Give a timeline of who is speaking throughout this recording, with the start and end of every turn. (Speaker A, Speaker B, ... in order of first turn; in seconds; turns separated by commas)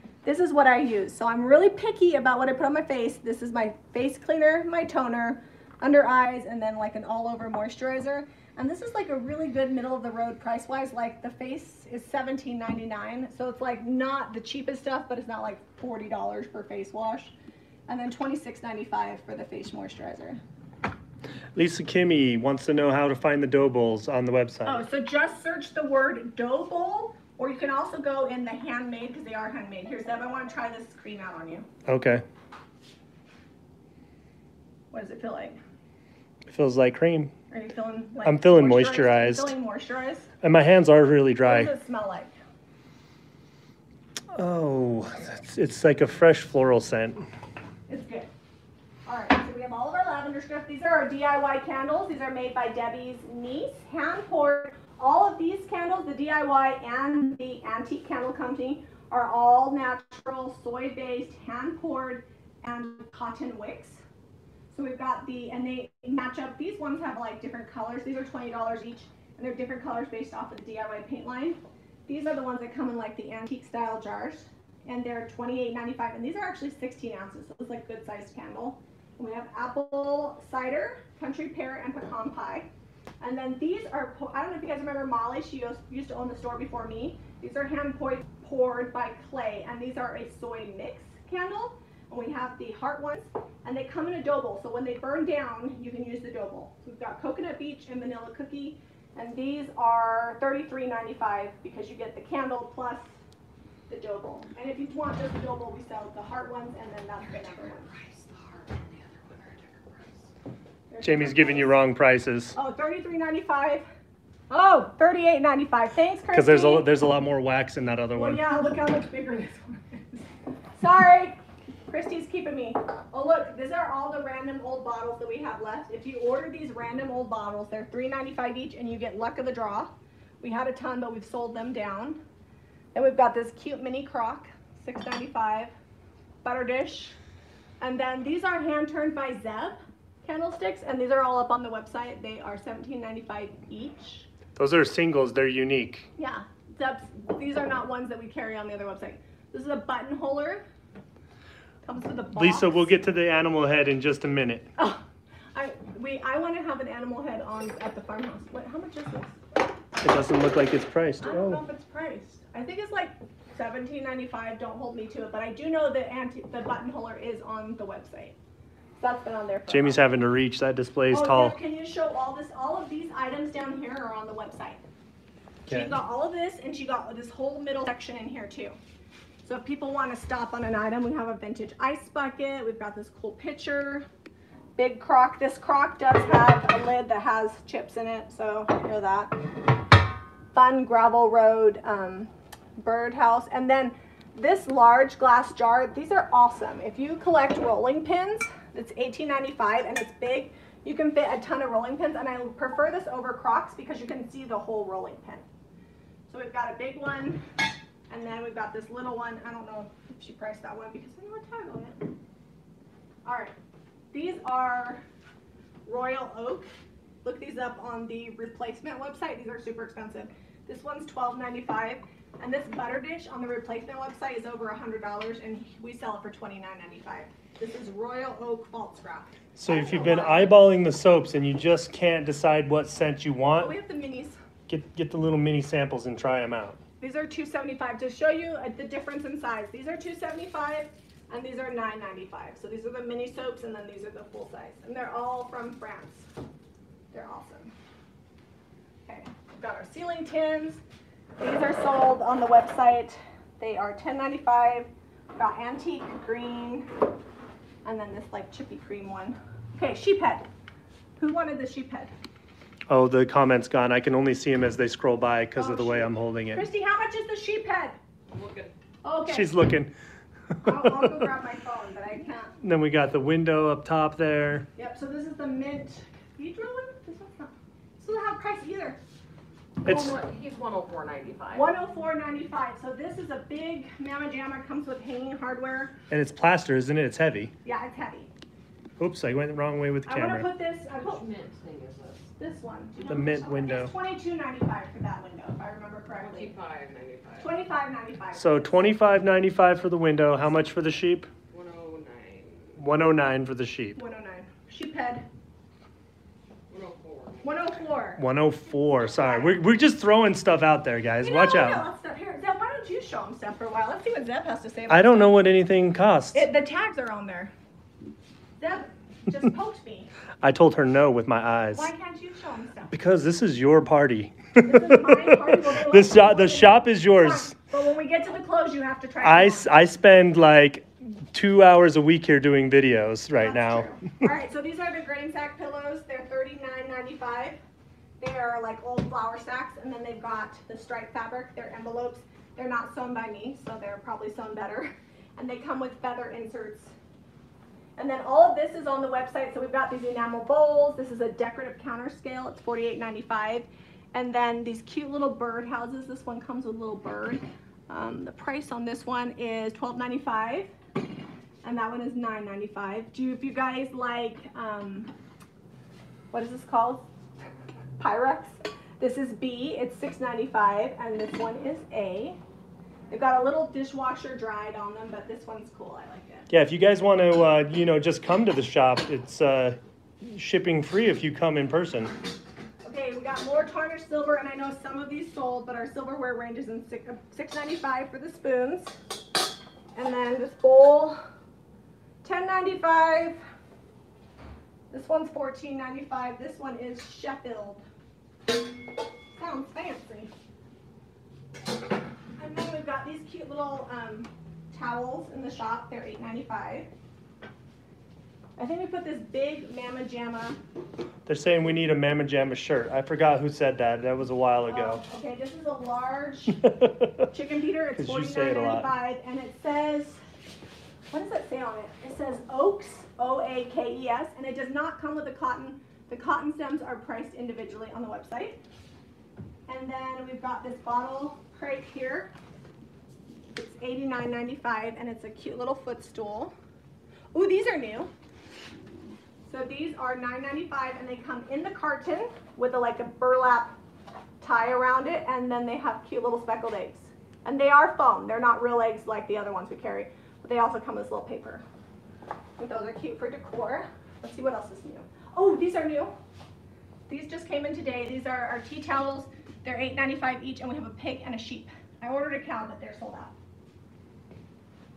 Speaker A: 0.2-17.3, Speaker A: 17.9-20.4, Speaker B: 21.5-24.8, Speaker A: 24.6-31.6, Speaker B: 31.9-32.2, Speaker A: 34.9-35.6, Speaker B: 36.5-37.3, Speaker A: 37.5-40.3, Speaker B: 38.2-39.5, Speaker B: 40.4-41.7, Speaker A: 41.4-42.3, Speaker B: 44.3-47.2, Speaker A: 47.9-48.3, Speaker A: 49.0-64.0, Speaker A: 64.7-82.7, Speaker A: 83.2-103.1, Speaker A: 103.9-108.0, Speaker A: 110.9-111.8, Speaker B: 111.0-112.5, Speaker A: 112.5-113.8, Speaker A: 114.5-116.9, Speaker B: 116.3-118.4, Speaker A: 118.1-120.2, Speaker A: 120.8-132.2, Speaker A: 132.9-135.7, Speaker A: 136.4-137.2, Speaker A: 137.8-144.3, Speaker B: 144.6-146.1, Speaker A: 146.2-150.6, Speaker A: 151.8-152.9, Speaker B: 152.3-154.7, Speaker A: 154.8-159.4, Speaker B: 160.0-161.6, Speaker A: 161.2-168.3, Speaker A: 169.0-170.0, Speaker B: 169.7-171.6, Speaker A: 171.1-174.8, Speaker A: 175.7-178.8, Speaker B: 175.7-175.9, Speaker A: 179.4-184.1, Speaker A: 184.8-189.3, Speaker A: 190.5-205.4, Speaker A: 206.3-207.4, Speaker A: 208.1-212.1, Speaker A: 213.2-213.5, Speaker A: 214.1-215.0, Speaker A: 215.8-216.7, Speaker A: 217.2-230.6, Speaker B: 229.6-233.7, Speaker A: 233.6-234.4, Speaker B: 234.7-236.8, Speaker A: 237.0-246.3, Speaker A: 247.1-247.7, Speaker A: 249.1-250.8, Speaker A: 251.4-256.9, Speaker A: 257.8-260.5, Speaker A: 261.2-262.1, Speaker B: 262.9-266.7, Speaker A: 265.6-268.0, Speaker C: 268.3-268.7, Speaker A: 269.0-269.5, Speaker B: 269.3-269.9, Speaker B: 270.6-271.3, Speaker A: 270.6-272.5, Speaker B: 272.6-274.7, Speaker A: 274.8-279.0, Speaker C: 279.8-281.7, Speaker B: 279.9-280.2, Speaker A: 281.5-285.9, Speaker B: 286.1-287.5, Speaker A: 287.6-288.3, Speaker B: 289.0-290.5, Speaker A: 290.1-291.2, Speaker C: 290.9-292.3, Speaker A: 292.4-296.5, Speaker B: 293.1-293.9, Speaker C: 296.1-297.6, Speaker A: 297.4-298.9, Speaker B: 298.3-301.3, Speaker C: 301.5-302.8, Speaker B: 302.8-304.0, Speaker A: 303.9-305.2, Speaker C: 306.7-307.8, Speaker A: 307.4-308.2, Speaker B: 308.2-311.9, Speaker A: 309.1-309.6, Speaker A: 311.2-315.4, Speaker B: 314.9-316.4, Speaker A: 316.3-317.5, Speaker A: 318.6-320.1, Speaker B: 320.4-321.9, Speaker A: 321.7-322.9, Speaker B: 322.9-327.5, Speaker A: 324.6-329.6, Speaker B: 329.2-334.2, Speaker A: 333.4-337.6, Speaker A: 338.2-346.9, Speaker A: 348.0-360.7, Speaker A: 361.6-365.1, Speaker A: 366.3-367.0, Speaker A: 368.0-372.4, Speaker A: 373.1-376.5, Speaker B: 376.5-382.1, Speaker A: 382.8-389.0, Speaker A: 389.9-391.2, Speaker A: 392.2-393.4, Speaker A: 394.9-397.8, Speaker A: 399.3-400.3, Speaker A: 402.4-406.9, Speaker A: 408.6-410.6, Speaker B: 411.2-415.0, Speaker A: 414.7-416.8, Speaker B: 416.6-417.2, Speaker A: 417.3-420.2, Speaker B: 418.0-418.9, Speaker A: 421.1-428.6, Speaker A: 429.7-432.3, Speaker A: 433.5-436.5, Speaker A: 437.3-438.1, Speaker A: 439.5-443.8, Speaker A: 444.4-451.6, Speaker A: 452.6-456.1, Speaker A: 457.1-463.3